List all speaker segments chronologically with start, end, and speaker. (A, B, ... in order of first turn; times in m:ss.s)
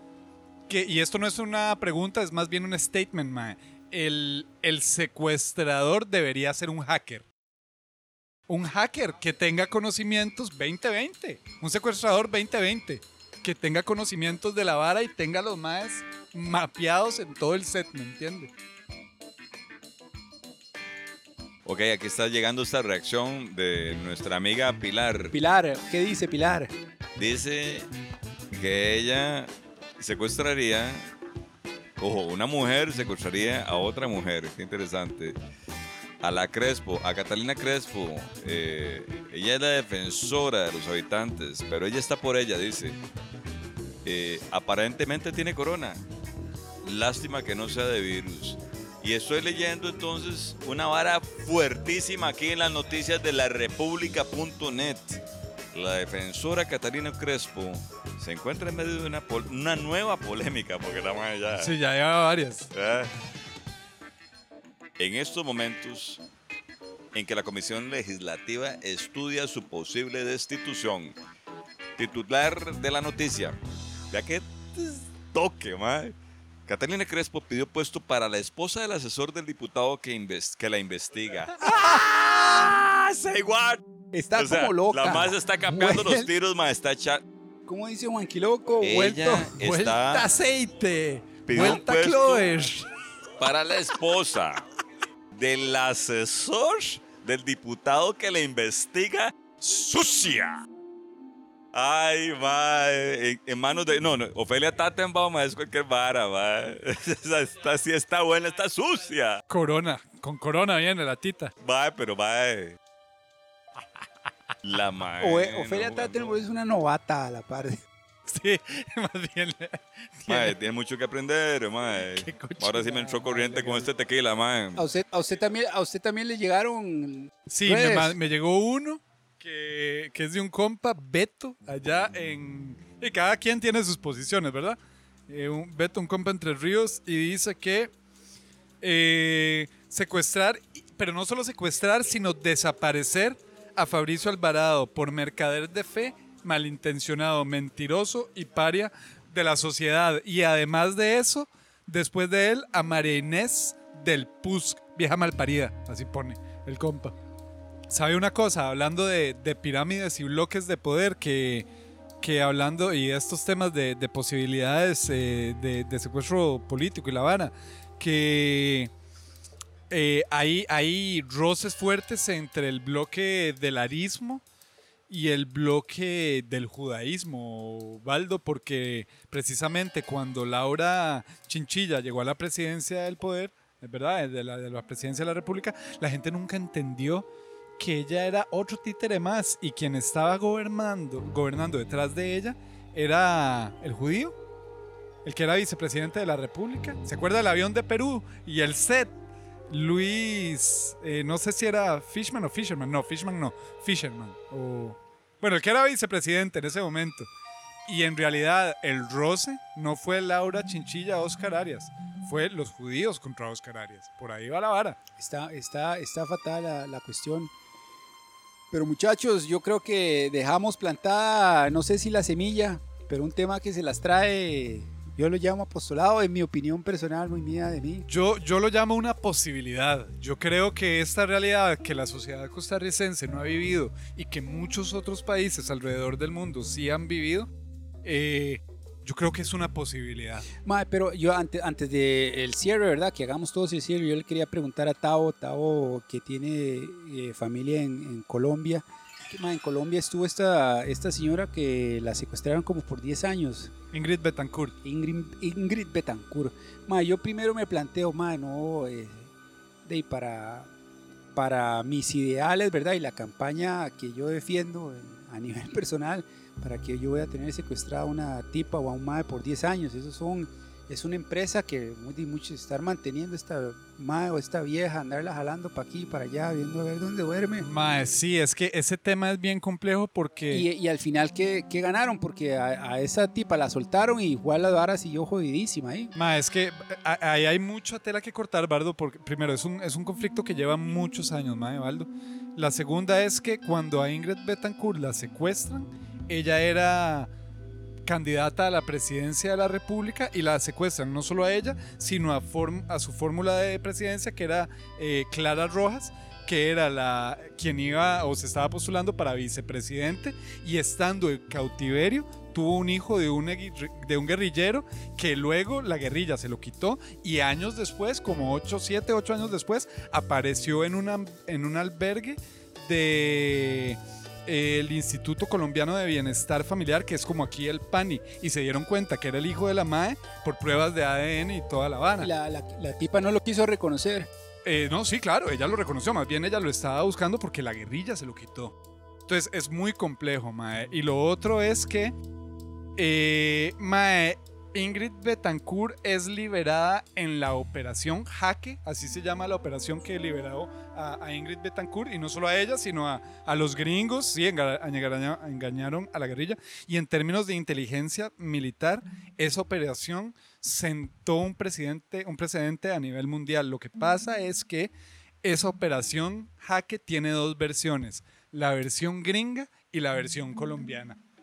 0:00.7-0:07.2 A
0:08.5-0:18.5 A
0:21.6-0:25.3 B
0:25.3-0:26.7 C
0:27.2-0:27.9 B
0:28.5-0:31.1 B
0:32.0-0:35.4 B
0:36.2-0:43.0 B
0:44.0-0:46.0 B
0:46.8-0:55.2 B
0:55.7-1:01.7 B
1:01.6-1:02.7 A
1:02.7-1:03.1 B
1:05.0-1:06.2 B
1:07.1-1:11.1 B
1:12.0-1:13.6 B
1:14.1-1:16.1 B
1:16.7-1:23.8 B
1:24.1-1:26.3 C
1:24.3-1:27.2 B
1:27.7-1:29.5 C
1:28.8-1:30.3 B
1:29.6-1:32.9 A
1:31.4-1:32.5 B
1:33.4-1:34.6 B
1:35.3-1:40.6 B
1:41.7-1:49.4 B
1:49.5-1:51.5 A
1:51.6-1:52.8 B
1:54.6-1:56.4 B
1:55.2-1:57.8 C
1:58.3-2:00.5 A
2:00.3-2:04.8 B
2:02.2-2:03.9 A
2:04.8-2:08.1 C
2:07.5-2:17.9 A
2:18.8-2:37.1 A
2:37.9-2:41.6 A
2:42.2-2:48.9 A
2:49.9-2:54.4 A
2:55.1-3:07.2 A
3:07.8-3:14.3 A
3:15.2-3:19.1 A
3:19.7-3:27.3 A
3:27.8-3:35.0 A
3:35.2-3:37.5 C
3:38.7-3:48.0 C
3:48.1-3:57.5 A
3:58.0-4:00.4 A
4:00.6-4:13.7 C
4:13.9-4:14.7 A
4:14.8-4:19.3 C
4:19.8-4:20.7 C
4:21.4-4:37.6 C
4:37.6-4:40.6 A
4:40.5-4:46.1 C
4:46.1-4:57.3 A
4:58.0-5:32.3 A
5:32.2-5:34.3 C
5:34.6-5:38.7 A
5:39.3-5:42.1 A
5:43.0-6:04.9 A
6:05.4-6:11.2 A